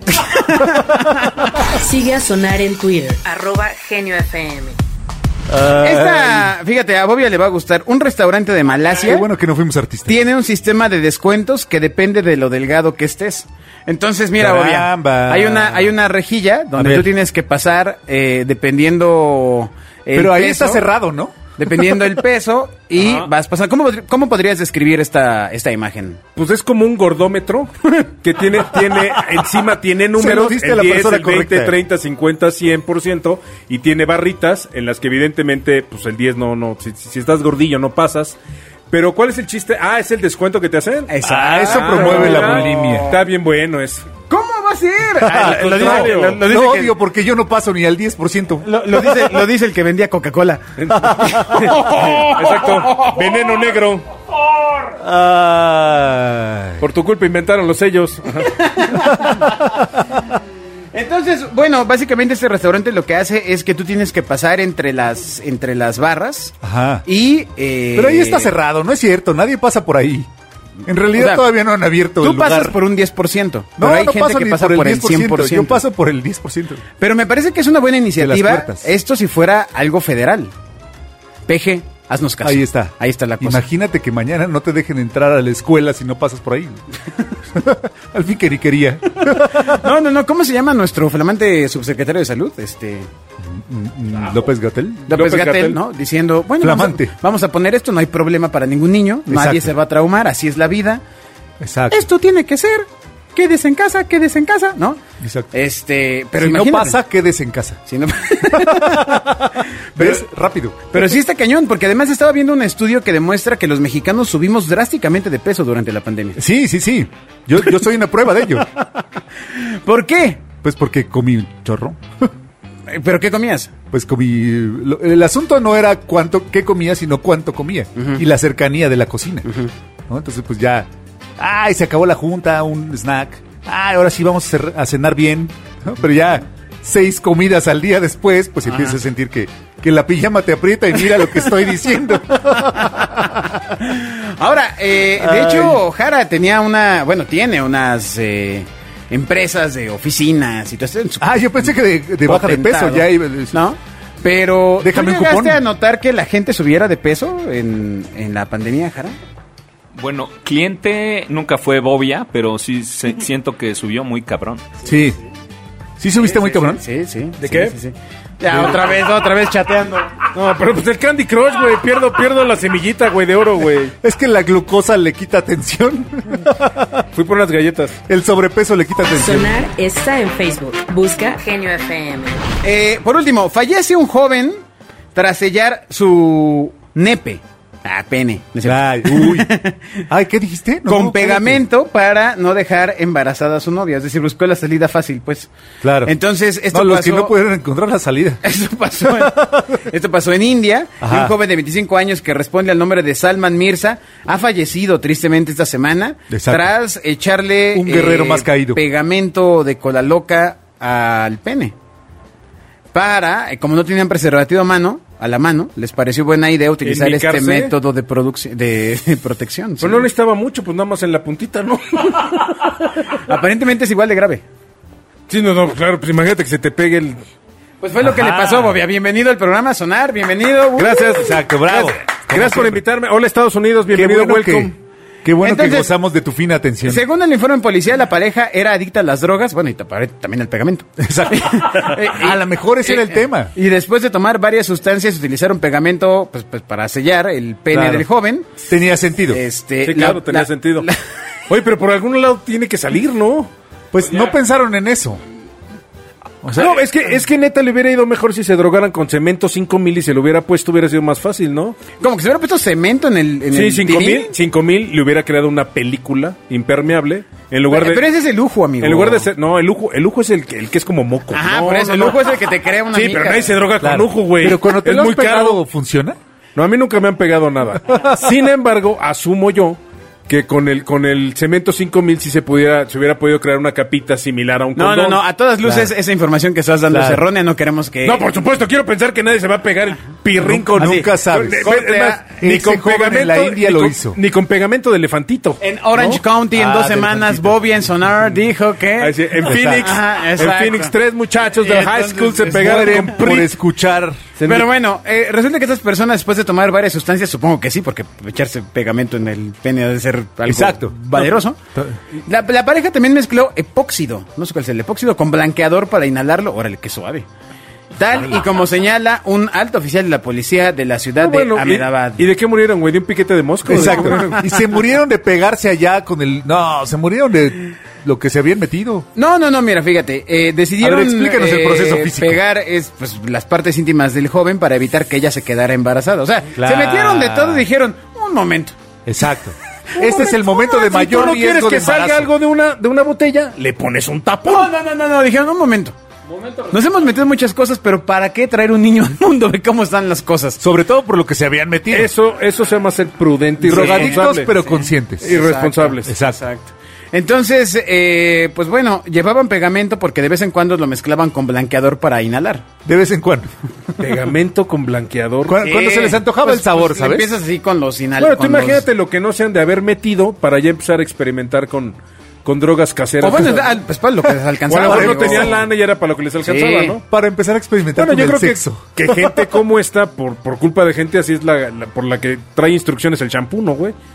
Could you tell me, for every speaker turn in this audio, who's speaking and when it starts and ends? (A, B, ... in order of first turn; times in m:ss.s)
0:00.1-0:01.4 A
0:00.8-0:01.2 B
0:01.7-0:04.8 C
0:05.5-0:06.6 B
0:05.7-0:09.3 A
0:09.0-0:10.2 B
0:10.1-0:20.8 A
0:14.4-0:16.0 B
0:16.8-0:17.1 B
0:20.1-0:21.5 B
0:21.6-0:26.2 A
0:23.0-0:23.3 D
0:26.4-0:38.4 D
0:28.9-0:29.4 B
0:30.1-0:31.8 B
0:38.9-0:44.1 D
0:41.1-0:43.2 A
0:41.2-0:43.2 B
0:44.3-0:47.0 A
0:45.2-0:49.2 B
0:45.2-0:46.4 D
0:48.6-0:53.5 A
0:50.8-0:54.1 D
0:54.7-0:54.9 A
0:55.0-0:56.8 B
0:56.8-0:58.6 D
0:58.4-0:59.5 A
0:59.0-0:59.9 B
1:00.9-1:08.5 A
1:06.6-1:07.0 B
1:08.0-1:10.3 B
1:10.8-1:12.8 B
1:11.1-1:11.4 A
1:12.2-1:15.8 A
1:13.8-1:16.8 B
1:17.0-1:20.5 A
1:18.2-1:18.9 B
1:21.5-1:23.6 A
1:22.4-1:26.8 B
1:27.5-1:29.9 B
1:29.3-1:33.1 A
1:33.4-1:35.1 B
1:35.1-1:41.0 A
1:35.1-1:35.8 D
1:36.6-1:37.1 B
1:39.3-1:39.7 B
1:41.6-1:42.1 B
1:41.9-1:45.0 A
1:45.2-1:45.5 B
1:45.5-1:47.0 A
1:46.4-1:47.8 B
1:47.9-1:49.4 A
1:48.5-1:51.1 B
1:50.0-1:50.2 A
1:50.9-1:56.4 A
1:56.4-1:58.7 B
1:59.4-2:00.5 A
2:00.6-2:02.3 B
2:02.9-2:03.7 A
2:03.9-2:09.5 B
2:08.0-2:08.2 A
2:10.1-2:23.5 B
2:18.7-2:19.0 A
2:22.8-2:39.2 A
2:25.2-2:25.8 B
2:31.2-2:33.6 B
2:34.8-2:35.6 B
2:40.0-2:44.7 E
2:44.8-2:45.2 B
2:46.0-2:46.8 B
2:46.2-2:50.3 A
2:47.4-2:47.8 D
2:48.5-2:48.8 B
2:48.5-2:48.8 D
2:50.3-2:53.9 D
2:54.0-2:57.0 B
2:57.1-2:58.0 D
2:58.1-2:59.6 B
2:59.1-3:02.4 C
3:02.6-3:04.6 A
3:05.2-3:09.8 A
3:08.6-3:09.5 B
3:10.1-3:11.6 B
3:10.9-3:15.5 A
3:15.8-3:16.1 B
3:16.0-3:17.3 A
3:16.7-3:18.4 B
3:18.4-3:31.7 A
3:19.0-3:19.8 B
3:21.0-3:21.4 B
3:26.3-3:26.7 B
3:27.7-3:28.8 B
3:32.9-3:40.1 A
3:36.8-3:37.7 D
3:39.8-3:43.0 D
3:43.1-3:44.4 A
3:45.3-3:47.2 D
3:47.8-3:51.3 A
3:48.0-3:48.8 B
3:50.8-3:54.7 D
3:51.0-3:52.8 B
3:53.9-3:54.7 B
3:55.2-3:57.0 B
3:55.4-3:55.9 A
3:56.8-4:08.7 A
4:01.0-4:03.5 B
4:07.7-4:08.0 B
4:08.6-4:09.4 B
4:09.3-4:11.0 A
4:09.8-4:10.9 D
4:11.5-4:13.5 D
4:13.9-4:15.2 B
4:16.4-4:16.8 B
4:16.5-4:21.8 D
4:21.9-4:24.3 A
4:23.5-4:28.0 D
4:27.7-4:29.3 A
4:28.8-4:32.4 D
4:31.3-4:33.6 A
4:32.9-4:35.6 D
4:33.8-4:36.2 B
4:36.6-4:45.2 D
4:37.9-4:38.2 B
4:44.8-4:48.3 A
4:45.6-4:45.9 B
4:46.9-4:47.2 B
4:48.0-4:56.2 D
4:50.4-4:51.7 B
4:50.8-4:52.2 A
4:52.3-4:54.2 B
4:55.6-5:00.9 A
4:56.5-4:57.6 B
4:59.0-5:03.5 D
4:59.4-5:00.0 B
5:01.5-5:03.3 A
5:02.5-5:04.2 B
5:04.4-5:04.7 D
5:04.5-5:11.6 A
5:10.5-5:12.0 B
5:12.2-5:17.3 A
5:17.9-5:22.3 A
5:21.2-5:24.4 D
5:23.7-5:29.1 B
5:23.7-5:24.6 A
5:29.2-5:38.8 A
5:30.8-5:32.4 B
5:36.6-5:37.7 B
5:39.1-5:42.3 B
5:40.0-5:40.6 A
5:40.7-5:44.7 D
5:44.4-5:46.0 A
5:46.7-5:50.6 A
5:50.6-5:52.1 B
5:51.9-5:54.5 D
5:53.6-5:55.4 B
5:53.6-6:02.7 A
5:55.2-5:56.2 D
5:56.0-5:56.4 B
6:02.8-6:03.5 B
6:04.0-6:05.6 D
6:05.5-6:07.3 B
6:05.6-6:08.9 A
6:08.2-6:13.7 D
6:13.2-6:15.6 A
6:14.7-6:17.0 D
6:14.8-6:15.6 B
6:16.4-6:17.0 A
6:17.1-6:19.4 B
6:18.0-6:24.0 D